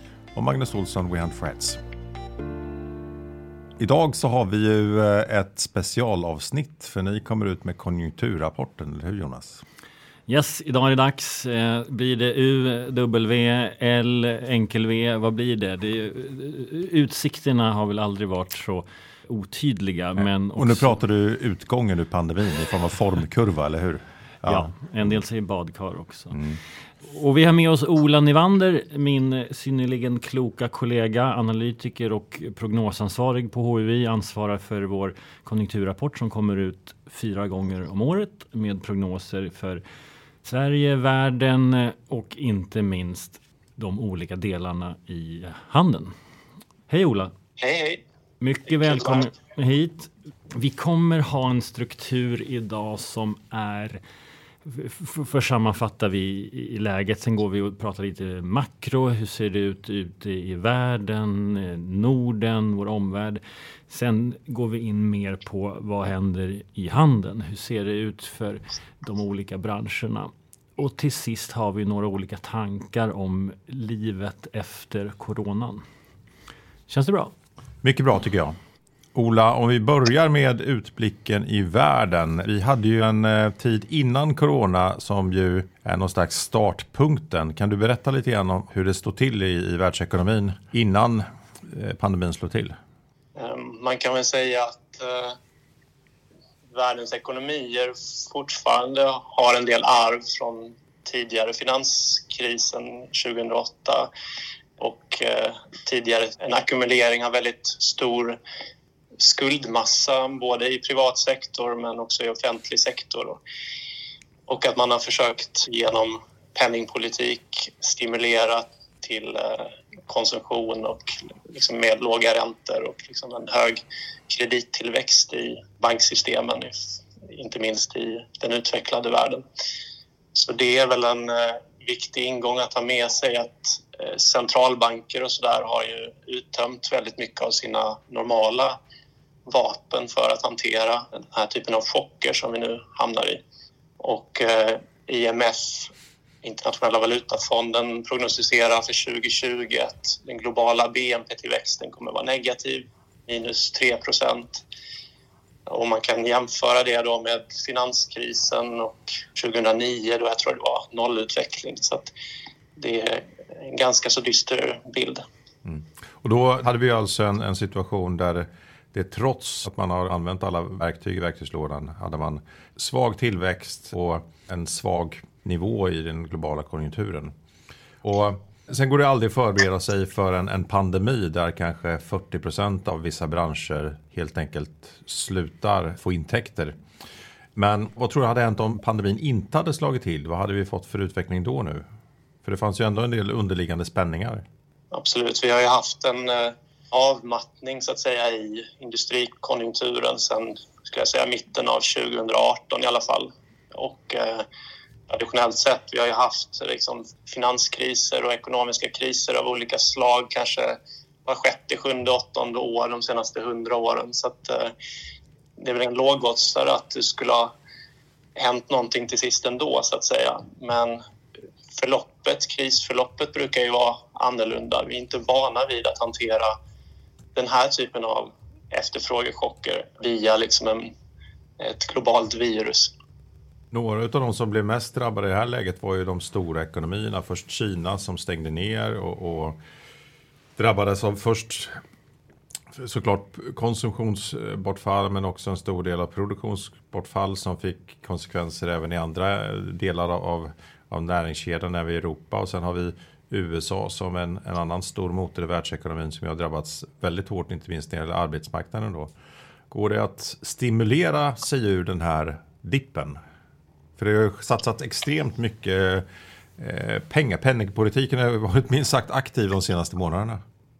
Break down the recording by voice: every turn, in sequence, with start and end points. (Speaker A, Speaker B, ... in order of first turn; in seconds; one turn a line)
Speaker A: 0.3-1.8
Speaker A: 3.8-9.6
Speaker B: 10.3-20.9
Speaker A: 20.6-24.7
Speaker B: 24.4-26.4
Speaker A: 26.3-26.6
Speaker B: 27.0-39.8
Speaker B: 40.4-46.1
Speaker B: 46.9-47.3
Speaker C: 47.6-48.0
Speaker B: 48.4-54.0
Speaker C: 48.7-49.2
Speaker B: 54.6-75.8
Speaker B: 76.9-77.3
Speaker A: 77.8-78.5
Speaker A: 79.1-92.7
Speaker C: 93.3-95.4
Speaker C: 96.7-104.1
Speaker C: 104.8-108.4
Speaker C: 109.2-113.4
Speaker C: 114.5-129.4
Speaker C: 130.3-138.8
Speaker C: 139.5-143.4
Speaker C: 144.0-154.6
Speaker C: 155.7-162.1
Speaker C: 162.8-165.2
Speaker A: 165.6-177.3
Speaker A: 178.0-186.7
Speaker A: 187.6-191.8
Speaker A: 192.4-194.4
Speaker C: 194.9-204.4
Speaker C: 205.1-214.7
Speaker C: 215.6-217.5
Speaker C: 218.3-221.0
Speaker C: 221.7-226.6
Speaker C: 227.3-230.9
Speaker C: 231.6-232.9
Speaker A: 233.7-239.6
Speaker A: 240.6-241.8
Speaker A: 242.7-259.1
Speaker A: 259.7-263.2
Speaker A: 264.0-266.0
Speaker A: 266.6-270.4